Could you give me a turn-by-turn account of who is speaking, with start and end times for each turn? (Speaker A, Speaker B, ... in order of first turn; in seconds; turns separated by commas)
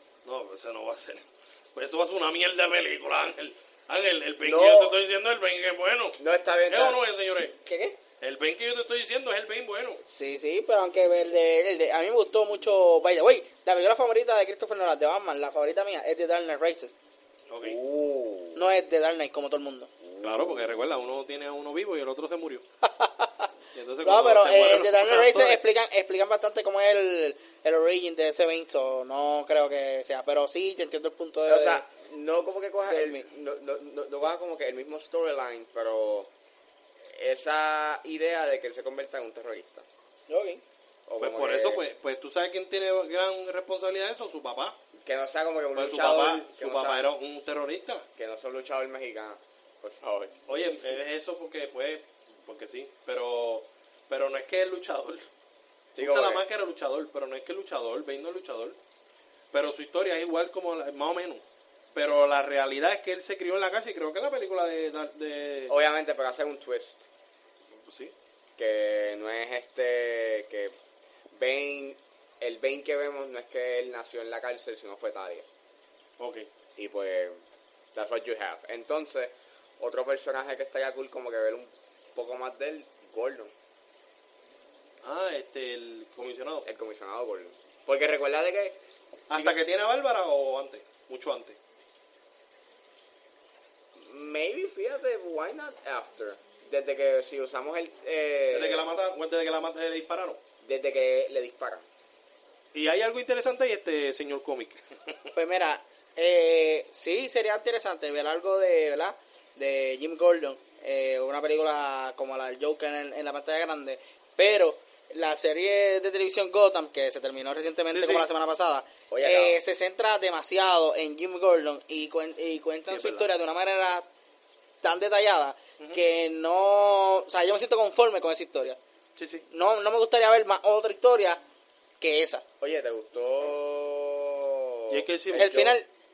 Speaker A: 0.2-6.2, Speaker B: 4.4-5.0, Speaker B: 6.2-7.0, Speaker A: 6.7-7.5, Speaker C: 7.6-8.0, Speaker A: 8.2-10.0, Speaker C: 10.1-16.9, Speaker A: 17.5-17.8, Speaker B: 17.6-18.7, Speaker C: 18.5-19.9, Speaker B: 20.0-20.8, Speaker A: 20.2-22.6, Speaker C: 22.8-23.5, Speaker A: 23.7-25.6, Speaker C: 24.0-31.8, Speaker B: 31.5-36.3, Speaker C: 32.9-33.2, Speaker B: 37.1-39.9, Speaker C: 40.3-40.6, Speaker B: 41.1-41.8, Speaker A: 41.2-44.8, Speaker B: 45.0-47.0, Speaker A: 45.7-48.0, Speaker B: 48.2-51.0, Speaker A: 50.5-55.3, Speaker B: 55.9-56.4, Speaker A: 56.0-58.8, Speaker A: 59.5-65.7, Speaker B: 65.7-67.1, Speaker A: 67.7-68.1, Speaker B: 68.6-70.7, Speaker B: 71.3-75.5, Speaker A: 76.2-76.5, Speaker B: 76.8-77.4, Speaker B: 77.9-83.5, Speaker A: 85.0-86.7, Speaker B: 86.6-88.8, Speaker A: 89.3-91.6, Speaker B: 94.0-98.8, Speaker A: 98.5-100.4, Speaker B: 100.6-101.8, Speaker A: 102.7-105.2, Speaker C: 105.3-124.1, Speaker A: 117.9-118.3, Speaker B: 119.1-119.5, Speaker A: 122.8-123.3, Speaker C: 124.8-128.8, Speaker A: 129.2-129.4, Speaker C: 129.5-131.4, Speaker C: 132.0-132.4, Speaker B: 132.6-135.8, Speaker A: 134.9-135.7, Speaker C: 135.3-135.8